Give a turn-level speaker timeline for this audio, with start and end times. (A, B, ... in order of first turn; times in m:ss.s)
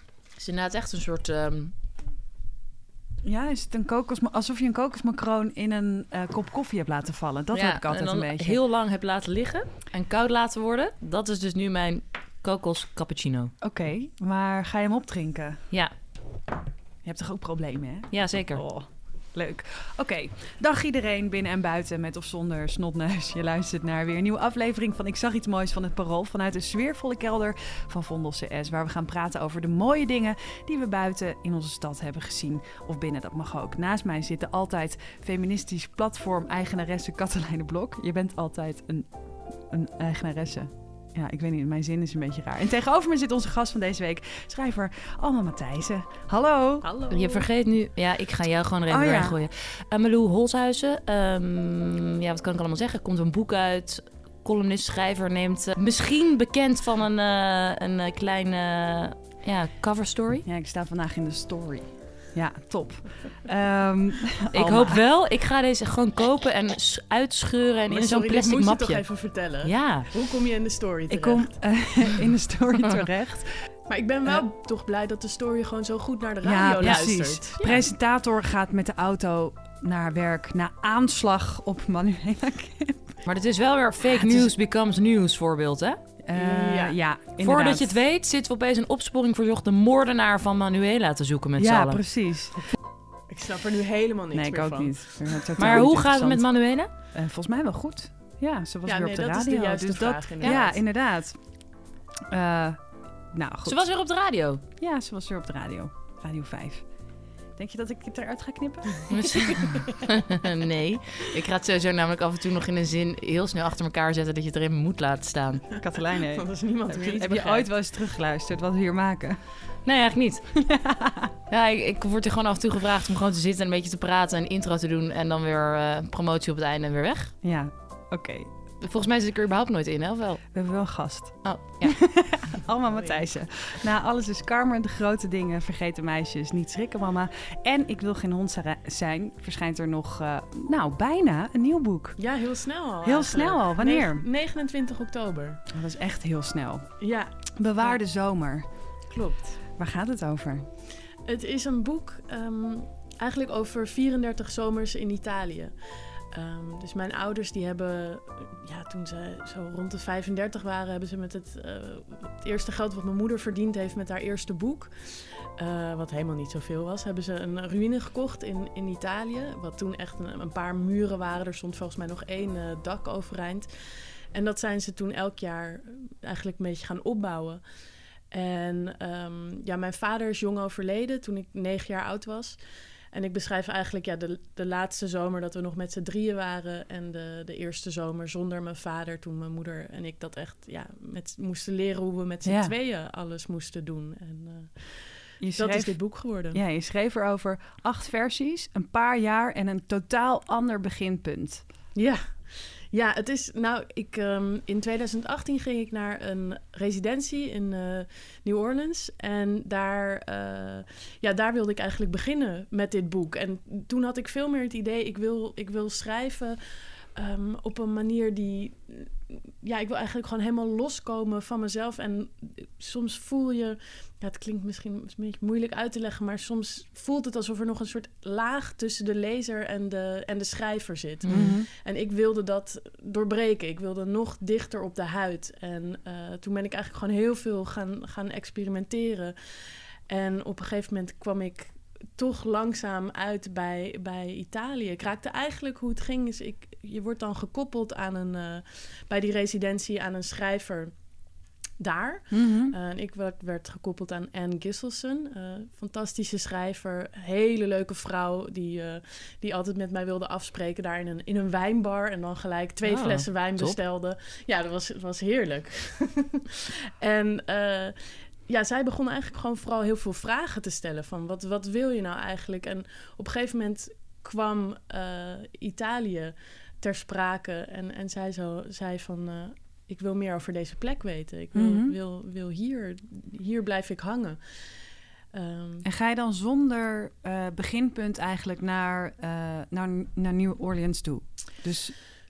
0:00.3-0:01.7 A
0:03.2-0:08.6 B
0:07.5-0:13.5 A
0:13.6-0:15.7 B
0:17.0-0:46.9 B
0:18.1-0:18.7 A
0:46.8-0:47.5 C
0:47.1-1:00.5 A
0:48.9-0:49.4 B
1:00.4-1:05.0 B
1:04.5-1:10.1 A
1:07.9-1:11.9 C
1:11.1-1:13.7 B
1:13.9-1:17.9 C
1:16.4-1:23.2 B
1:23.2-1:26.0 A
1:24.0-1:24.5 B
1:26.2-1:27.9 B
1:26.3-1:27.0 C
1:27.4-1:32.1 A
1:31.6-1:32.6 B
1:33.3-1:35.5 C
1:34.3-1:43.8 B
1:35.6-1:36.9 A
1:38.8-1:40.8 C
1:43.6-1:44.6 A
1:44.8-1:47.0 B
1:47.5-1:49.5 B
1:49.1-1:55.7 A
1:55.8-1:59.6 B
1:56.2-1:57.8 C
1:59.8-2:00.7 A
2:00.7-2:01.3 B
2:01.5-2:07.3 A
2:07.4-2:08.5 B
2:08.8-2:10.9 A
2:10.5-2:22.2 B
2:11.4-2:12.1 A
2:12.9-2:13.3 C
2:22.2-2:25.6 C
2:23.0-2:24.3 B
2:25.7-2:28.7 B
2:27.0-2:28.0 C
2:29.1-2:29.6 C
2:29.7-2:30.7 B
2:31.2-2:57.6 C
2:58.3-3:02.6 C
3:03.1-3:16.6 C
3:12.4-3:12.7 B
3:15.4-3:21.6 B
3:22.0-4:10.9 C
3:51.2-3:51.6 A
3:51.3-3:51.7 B
4:11.8-4:45.9 C
4:12.3-4:12.8 B
4:22.8-4:23.8 A
4:41.5-4:42.0 B
4:45.8-4:52.0 B